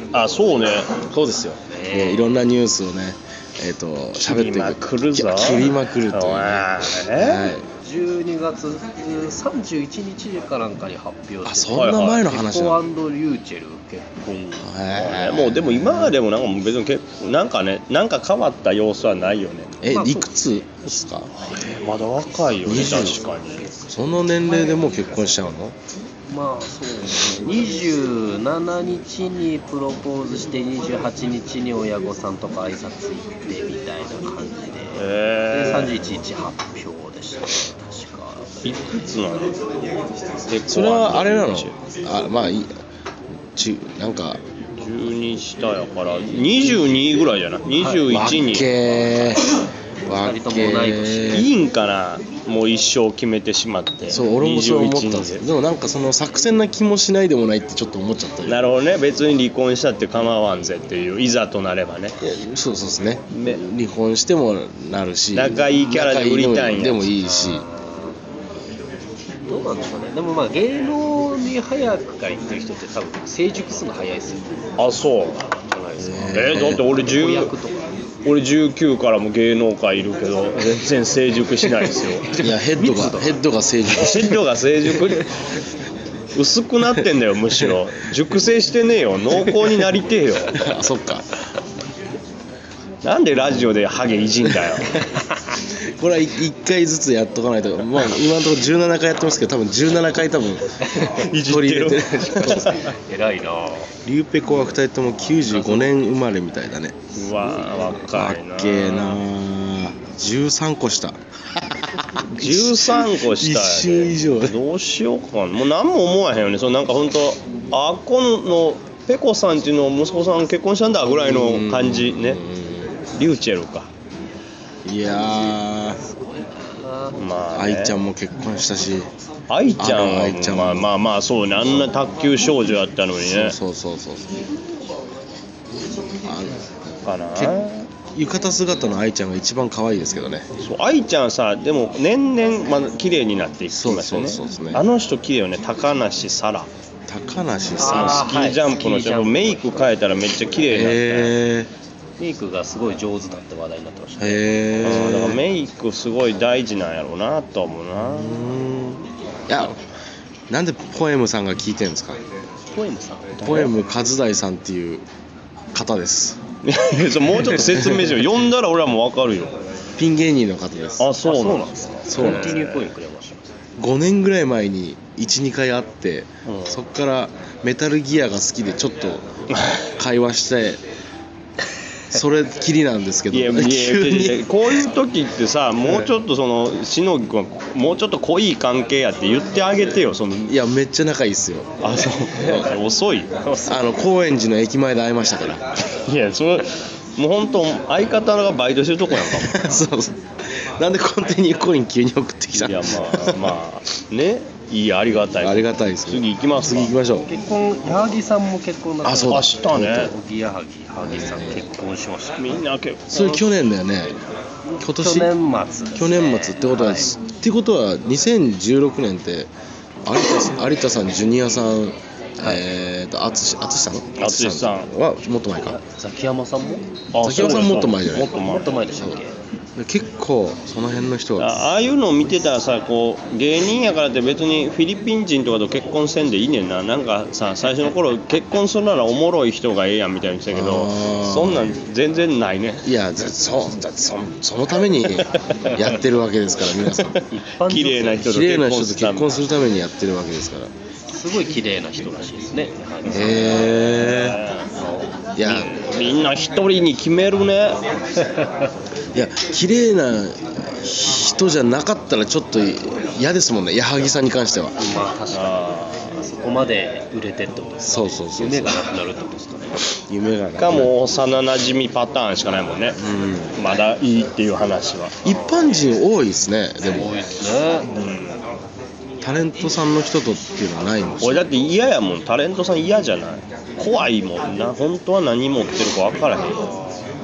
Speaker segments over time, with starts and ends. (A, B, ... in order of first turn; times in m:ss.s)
0:00.1-0:01.0 A
0:01.0-0:07.6 B
0:01.7-0:02.3 C
0:04.2-0:07.5 A
0:07.8-0:15.0 C
0:11.4-0:12.8 B
0:11.7-0:12.3 A
0:14.6-0:16.1 B
0:15.0-0:19.7 A
0:19.8-0:21.3 B
0:19.9-0:20.6 C
0:21.5-0:23.7 A
0:22.6-0:23.2 B
0:23.9-0:25.7 B
0:26.3-0:38.6 C
0:35.0-0:36.0 A
0:38.6-0:39.6 A
0:40.5-0:41.7 A
0:40.7-0:42.7 B
0:43.5-0:44.4 B
0:44.8-0:48.7 A
0:47.8-0:49.3 C
0:48.1-0:49.4 B
0:50.0-0:51.5 B
0:50.1-0:51.4 C
0:51.3-0:55.4 A
0:54.1-0:58.6 B
0:58.4-1:02.2 A
1:02.2-1:07.6 B
1:03.3-1:03.6 A
1:05.3-1:07.1 A
1:07.2-1:08.2 C
1:09.5-1:14.4 C
1:14.8-1:15.4 A
1:15.7-1:17.8 C
1:16.0-1:16.8 B
1:16.3-1:17.5 A
1:18.2-1:22.3 A
1:22.2-1:23.4 C
1:22.4-1:24.4 B
1:23.9-1:25.2 A
1:26.3-1:30.6 A
1:30.5-1:31.2 B
1:33.0-1:35.0 A
1:34.4-1:35.0 B
1:36.0-1:42.8 B
1:41.0-1:42.9 A
1:42.3-1:43.9 C
1:44.0-1:47.0 B
1:45.4-1:45.9 C
1:47.1-1:49.2 A
1:48.1-1:54.6 B
1:52.3-2:02.4 A
2:01.1-2:03.0 B
2:03.2-2:03.9 A
2:04.8-2:06.0 B
2:05.2-2:07.2 C
2:07.2-2:08.0 A
2:07.5-2:09.1 B
2:09.5-2:13.6 A
2:09.8-2:10.9 B
2:13.2-2:14.4 B
2:16.2-2:16.6 B
2:17.0-2:17.9 A
2:18.1-2:20.4 B
2:20.6-2:26.7 A
2:23.7-2:24.8 B
2:27.1-2:28.3 B
2:27.8-2:29.8 C
2:27.8-2:31.3 A
2:30.7-2:31.7 B
2:32.2-2:34.5 C
2:34.2-2:35.4 B
2:34.8-2:38.4 A
2:38.0-2:39.8 B
2:40.5-2:42.2 B
2:42.7-2:43.7 C
2:43.4-2:45.0 B
2:45.7-2:46.4 B
2:46.6-2:49.6 A
2:47.7-2:48.1 B
2:50.0-2:51.1 B
2:51.0-2:52.9 A
2:51.2-2:53.4 C
2:52.1-2:52.6 B
2:53.8-2:59.2 B
2:56.4-2:56.8 A
2:59.5-2:59.8 A
3:00.0-3:00.8 B
3:02.1-3:04.8 B
3:03.3-3:10.5 A
3:10.5-3:11.7 B
3:11.8-3:13.6 A
3:12.4-3:12.7 B
3:13.6-3:15.6 B
3:16.0-3:19.8 A
3:19.1-3:20.2 B
3:20.8-3:23.5 B
3:22.6-3:26.9 A
3:25.4-3:27.3 B
3:27.1-3:32.6 C
3:29.0-3:30.1 B
3:29.2-3:30.1 A
3:31.0-3:31.6 B
3:32.4-3:33.4 A
3:33.1-3:34.2 B
3:34.7-3:37.1 C
3:34.8-3:35.3 B
3:35.9-3:39.5 B
3:40.0-3:45.8 B
3:44.2-3:44.9 A
3:45.6-3:46.9 C
3:47.1-3:48.8 A
3:47.2-3:48.3 B
3:48.3-3:49.3 C
3:49.8-3:51.6 B
3:51.4-4:02.9 A
4:00.5-4:01.7 B
4:02.8-4:07.2 B
4:06.8-4:09.4 A
4:07.3-4:08.4 C
4:08.2-4:10.7 B
4:11.1-4:13.7 C
4:13.1-4:14.4 B
4:14.0-4:14.7 A
4:14.8-4:15.1 C
4:15.4-4:15.7 B
4:15.4-4:17.8 A
4:19.1-4:24.8 B
4:24.8-4:29.7 C
4:25.3-4:26.1 A
4:27.8-4:28.8 B
4:30.1-4:30.9 B
4:30.6-4:33.0 A
4:33.0-4:33.5 B
4:33.6-4:35.2 A
4:35.2-4:37.1 B
4:36.8-4:37.9 C
4:37.9-4:38.4 A
4:39.2-4:41.4 B
4:41.2-4:46.9 A